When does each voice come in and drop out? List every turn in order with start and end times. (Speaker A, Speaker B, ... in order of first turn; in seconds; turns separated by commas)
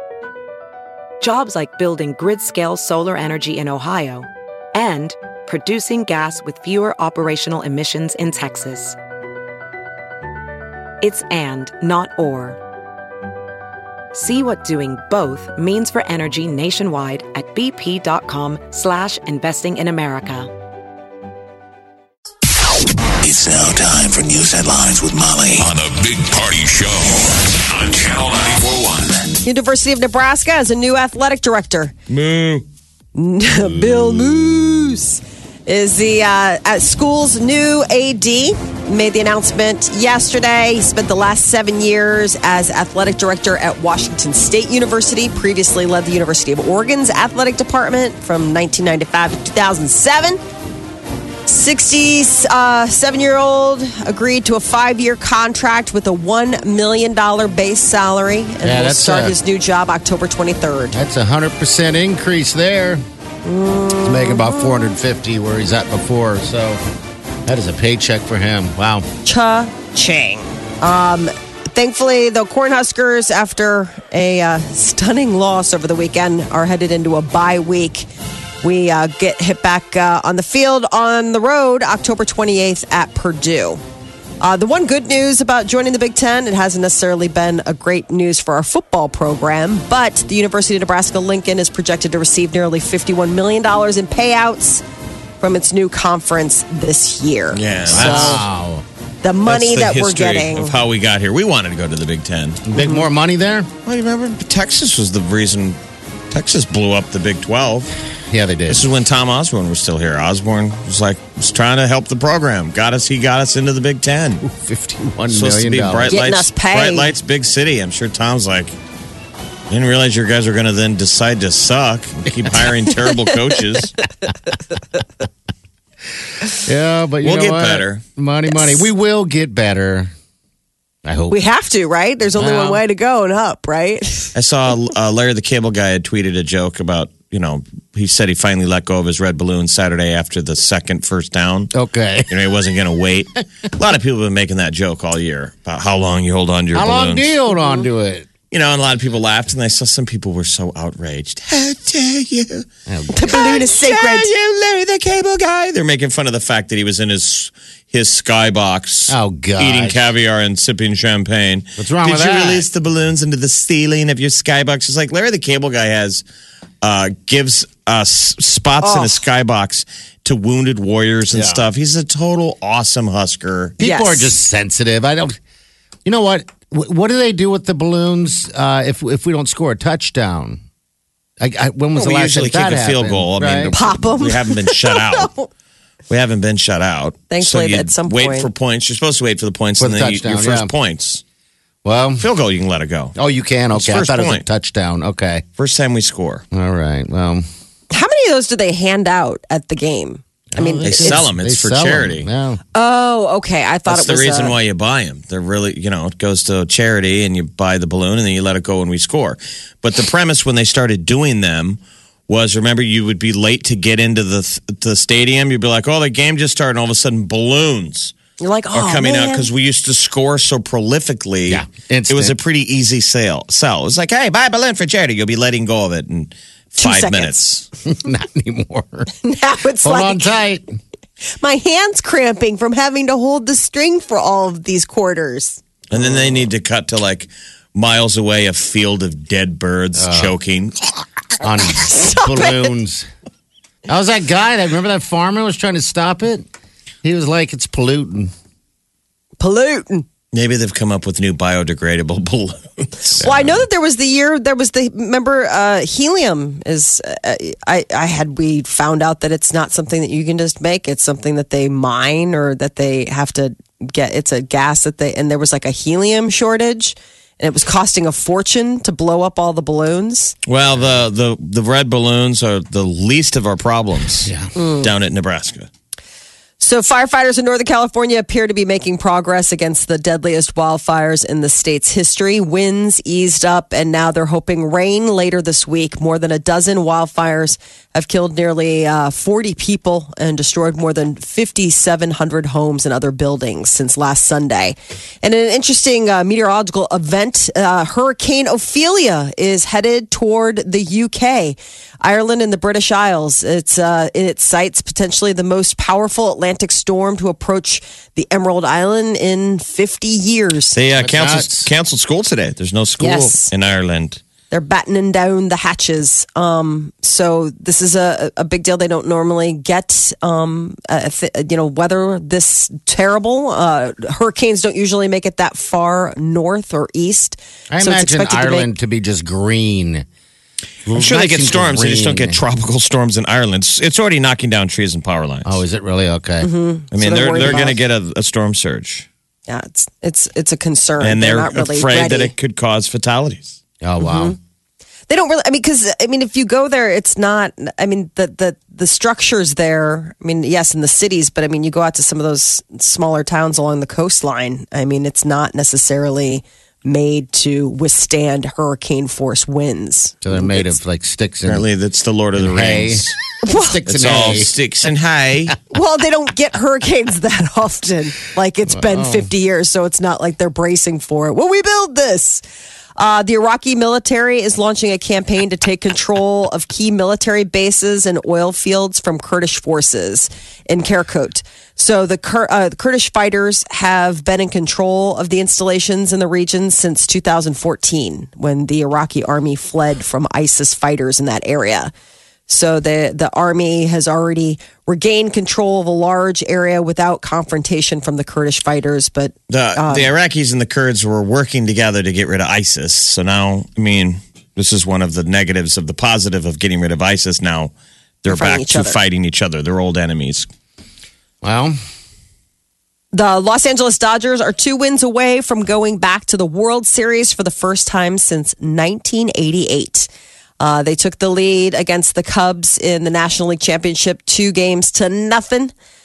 Speaker A: 1.2-8.9, Speaker A: 11.0-12.6, Speaker A: 14.1-20.5, Speaker B: 23.2-29.2, Speaker C: 29.4-31.9, Speaker D: 32.1-32.6, Speaker C: 33.1-50.4, Speaker C: 51.5-61.0, Speaker E: 58.6-59.4, Speaker E: 60.9-63.0, Speaker C: 63.4-64.9, Speaker E: 64.0-66.8, Speaker E: 67.5-69.1, Speaker C: 69.2-78.1, Speaker C: 78.6-83.8, Speaker C: 84.4-94.8, Speaker C: 95.4-98.4, Speaker D: 97.5-98.4, Speaker E: 97.9-98.8, Speaker C: 99.2-100.8, Speaker D: 99.5-102.6, Speaker E: 102.7-103.7, Speaker C: 102.8-103.0, Speaker D: 103.8-105.8, Speaker D: 106.3-107.9, Speaker E: 108.3-108.9, Speaker D: 108.7-114.4, Speaker E: 114.4-116.1, Speaker D: 115.3-118.7, Speaker C: 116.1-117.1, Speaker D: 119.7-123.9, Speaker E: 126.6-130.1, Speaker D: 127.2-128.0, Speaker C: 128.5-128.8, Speaker E: 131.0-131.4, Speaker C: 131.3-134.3, Speaker E: 132.3-132.8, Speaker D: 134.3-141.7, Speaker E: 141.7-142.3, Speaker D: 142.3-147.3, Speaker E: 146.7-148.3, Speaker D: 148.5-152.7, Speaker E: 152.9-153.3, Speaker C: 153.1-154.3, Speaker D: 153.3-166.2, Speaker E: 159.1-160.1, Speaker E: 161.8-162.7, Speaker D: 166.8-173.8, Speaker C: 168.8-169.2, Speaker E: 171.3-171.6, Speaker E: 173.8-175.4, Speaker C: 173.8-174.3, Speaker E: 176.0-180.6, Speaker E: 181.4-183.7, Speaker D: 181.9-185.3, Speaker C: 183.7-185.5, Speaker D: 186.1-191.2, Speaker C: 187.3-188.5, Speaker E: 189.8-190.7, Speaker E: 191.8-192.3, Speaker D: 192.2-193.1, Speaker E: 193.2-195.4, Speaker D: 193.7-194.4, Speaker D: 195.6-196.4, Speaker E: 196.5-197.4, Speaker C: 197.9-201.2, Speaker E: 200.5-202.6, Speaker D: 200.8-202.3, Speaker C: 202.7-204.6, Speaker D: 203.9-218.1, Speaker C: 218.4-219.5, Speaker D: 218.7-227.7, Speaker E: 221.5-222.3, Speaker C: 226.8-227.4, Speaker E: 227.8-229.1, Speaker C: 229.2-230.3, Speaker E: 229.8-230.8, Speaker C: 231.4-235.6, Speaker D: 235.9-240.7, Speaker E: 235.9-236.4, Speaker E: 240.0-240.3, Speaker E: 241.4-243.1, Speaker C: 241.6-242.7, Speaker E: 243.9-246.5, Speaker E: 247.0-248.3, Speaker C: 249.4-250.1, Speaker D: 250.3-253.2, Speaker E: 253.2-253.6, Speaker C: 253.2-270.4, Speaker D: 270.5-275.7, Speaker E: 274.2-274.5, Speaker C: 274.5-274.9, Speaker C: 276.6-310.8, Speaker D: 310.7-314.2, Speaker E: 310.9-311.7, Speaker C: 313.0-313.5, Speaker C: 314.5-328.7, Speaker E: 327.7-330.1, Speaker E: 330.8-332.4, Speaker D: 330.9-335.6, Speaker E: 335.4-336.5, Speaker C: 336.4-337.8, Speaker D: 336.9-339.1, Speaker E: 337.4-337.7, Speaker C: 339.5-342.3, Speaker D: 341.0-343.6, Speaker E: 343.8-344.4, Speaker C: 344.0-344.4, Speaker C: 345.1-360.7, Speaker E: 360.2-361.6, Speaker D: 361.4-363.1, Speaker E: 362.3-364.5, Speaker C: 363.4-363.8, Speaker D: 363.9-365.6, Speaker C: 365.7-372.4, Speaker E: 368.7-369.3, Speaker C: 373.0-391.9, Speaker C: 392.5-400.1, Speaker D: 399.5-410.5, Speaker C: 408.3-409.0, Speaker E: 411.4-411.8, Speaker C: 413.1-420.1, Speaker C: 420.6-425.7